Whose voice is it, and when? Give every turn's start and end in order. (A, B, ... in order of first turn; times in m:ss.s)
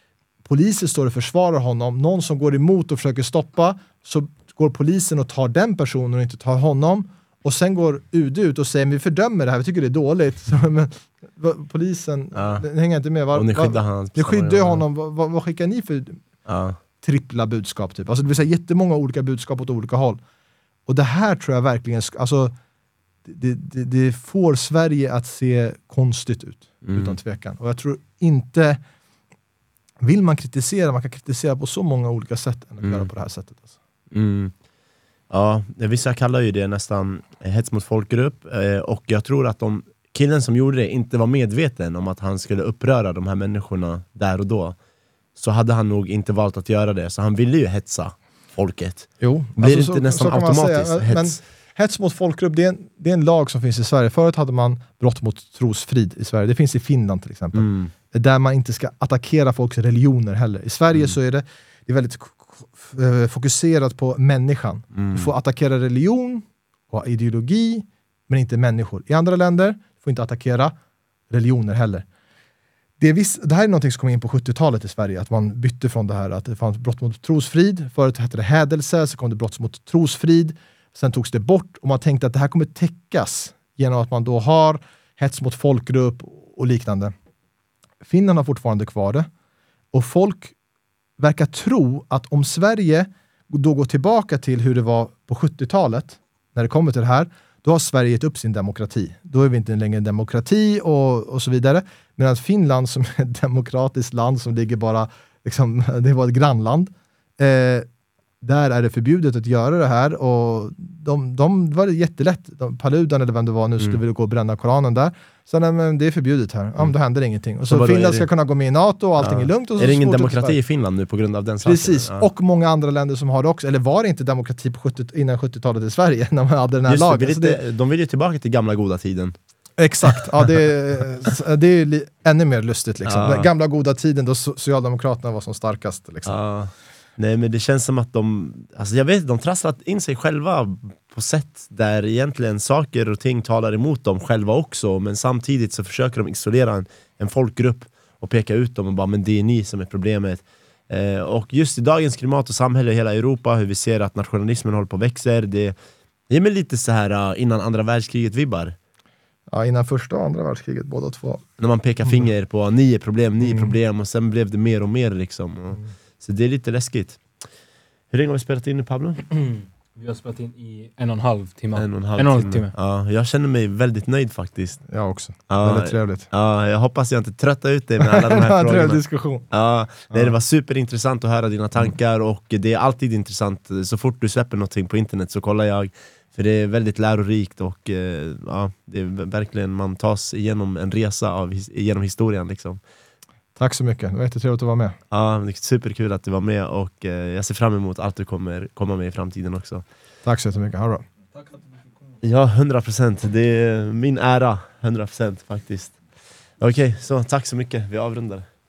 0:00.4-0:16.2 A
0:12.4-0:12.6 B
0:13.3-0:14.8 B
0:16.5-0:16.8 B
0:17.0-0:20.2 A
0:20.9-0:22.5 A
0:23.2-0:28.8 A
0:26.8-0:27.2 B
0:30.0-0:33.7 A
0:32.8-0:33.1 B
0:34.1-0:34.5 B
0:35.3-0:44.8 B
0:45.4-0:51.4 B
0:49.2-1:10.7 A
0:57.5-0:57.9 B
1:04.9-1:05.3 B
1:11.3-1:12.1 A
1:13.0-1:27.1 A
1:28.0-1:29.3 A
1:29.9-1:30.6 A
1:31.2-1:47.9 A
1:48.4-2:00.6 A
1:57.7-1:58.3 B
1:59.2-2:02.3 B
2:01.6-2:07.6 A
2:06.9-2:09.4 B
2:09.8-2:16.4 A
2:13.0-2:13.5 B
2:16.3-2:35.8 B
2:36.3-2:38.8 B
2:39.5-2:41.4 A
2:41.6-2:47.2 B
2:43.4-2:43.7 A
2:48.1-2:49.3 B
2:49.3-2:52.7 C
2:51.8-2:54.8 B
2:54.9-2:56.3 A
2:55.5-3:12.8 B
2:58.0-2:59.5 A
3:00.1-3:00.4 A
3:13.6-3:15.0 A
3:15.1-3:19.8 B
3:20.2-3:21.1 A
3:22.2-3:26.0 B
3:26.6-3:28.5 B